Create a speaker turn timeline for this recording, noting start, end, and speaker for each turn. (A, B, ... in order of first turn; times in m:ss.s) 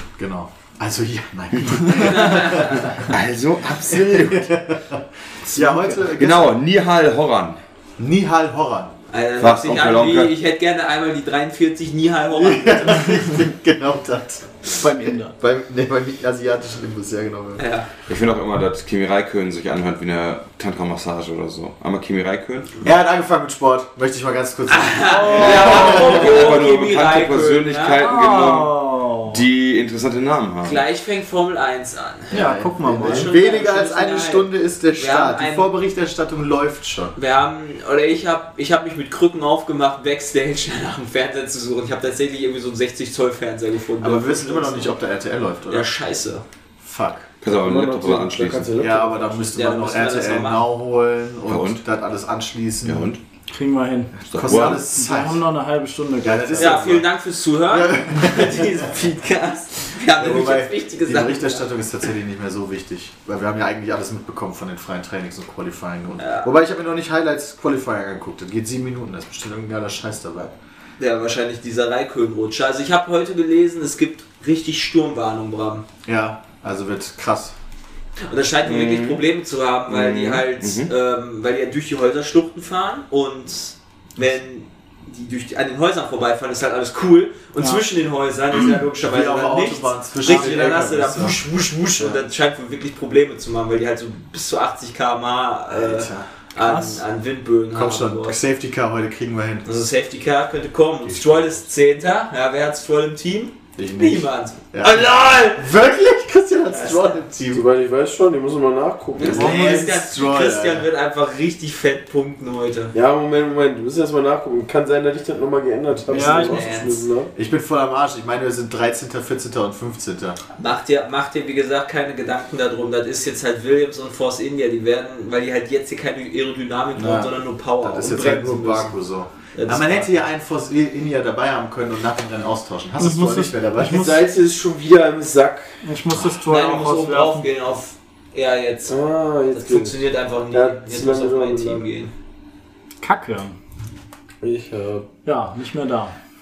0:00.2-0:03.1 A
0:01.9-0:02.9 B
0:03.0-0:04.5 C
0:03.9-0:06.6 A
0:05.5-0:06.0 D
0:06.2-0:07.6 C
0:08.0-0:09.0 A
0:09.1-0:13.3 B
0:09.4-0:10.3 C
0:12.3-0:17.6 A
0:14.7-0:15.4 D
0:17.6-0:17.9 B
0:18.1-0:22.7 C
0:22.8-0:26.5 A
0:24.7-0:28.0 B
0:25.0-0:26.3 D
0:25.3-0:30.8 C
0:28.0-0:29.4 D
0:30.6-0:32.4 B
0:32.3-0:37.2 A
0:32.3-0:33.3 D
0:33.0-0:35.7 B
0:37.2-0:44.9 B
0:44.0-0:45.9 A
0:45.7-0:46.4 B
0:46.8-0:47.3 A
0:47.4-0:48.7 C
0:47.5-0:49.5 E
0:48.8-0:53.1 A
0:49.6-0:50.7 B
0:51.5-0:51.8 C
0:52.8-0:53.2 C
0:53.5-0:56.8 D
0:54.2-0:54.8 C
0:54.3-0:55.4 A
0:56.2-0:57.1 A
0:56.6-1:01.7 B
0:57.7-0:58.9 A
1:00.1-1:10.6 A
1:06.2-1:06.5 B
1:11.0-1:15.9 B
1:16.1-1:17.6 A
1:18.3-1:38.4 B
1:18.6-1:19.2 C
1:19.9-1:20.9 C
1:27.6-1:27.8 D
1:29.0-1:31.4 A
1:35.7-1:36.3 A
1:36.6-1:37.0 D
1:37.7-1:39.8 A
1:39.7-1:45.7 B
1:41.0-1:41.6 A
1:43.8-1:47.7 A
1:46.7-1:47.2 B
1:47.5-1:49.8 E
1:49.2-1:52.9 B
1:49.2-1:50.9 A
1:52.9-1:57.3 E
1:56.1-1:56.6 D
1:56.1-1:57.0 B
1:57.4-2:00.4 A
2:00.6-2:09.0 B
2:07.0-2:14.2 A
2:09.5-2:10.2 B
2:13.0-2:14.2 D
2:13.8-2:15.8 E
2:15.8-2:17.5 D
2:16.5-2:22.1 B
2:18.9-2:21.9 E
2:23.0-2:23.6 D
2:24.4-2:25.1 E
2:25.2-2:26.2 D